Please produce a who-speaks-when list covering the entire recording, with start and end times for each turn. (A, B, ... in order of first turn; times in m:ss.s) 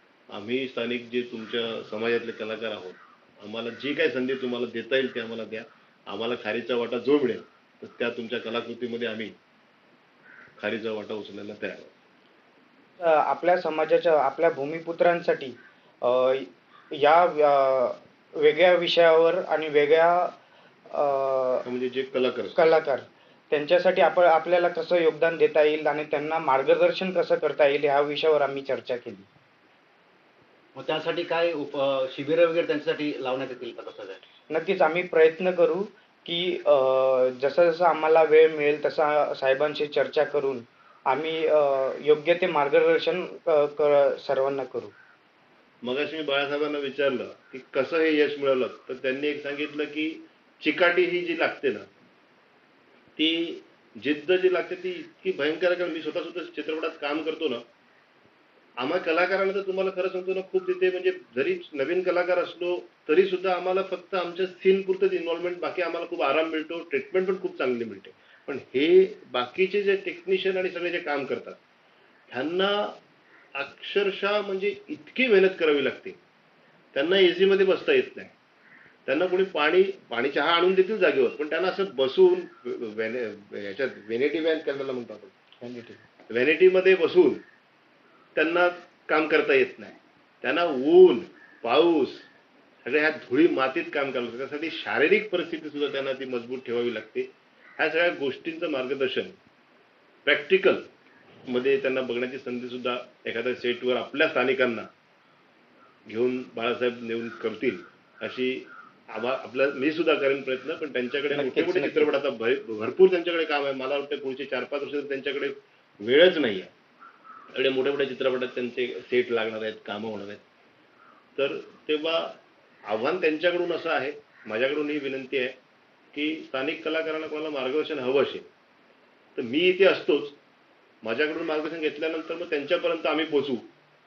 0:00.3-0:09.4 A
0:10.6-0:11.9 A
0:13.0-0:20.3 B
0:20.9-0:21.6 B
0:21.6-0:22.6 A
0:22.5-0:29.3 B
0:30.8-0:34.2 C
0:34.5-0:44.9 B
0:45.8-0:51.8 A
0:53.2-0:57.6 A
0:58.8-1:11.6 A
1:12.3-1:13.0 A
1:13.6-1:16.2 A
1:16.9-1:18.3 A
1:19.1-1:25.3 A
1:25.6-1:26.0 B
1:26.3-1:27.4 A
1:28.4-1:32.2 A
1:32.8-1:37.3 A
1:37.8-1:39.4 A
1:40.2-1:40.8 A
1:41.5-1:44.9 A
1:46.1-1:56.7 A
1:51.3-1:52.1 B
1:57.5-2:00.4 A
2:01.4-2:02.3 A
2:02.9-2:05.5 A
2:06.1-2:08.5 A
2:09.4-2:10.3 A
2:11.0-2:13.6 A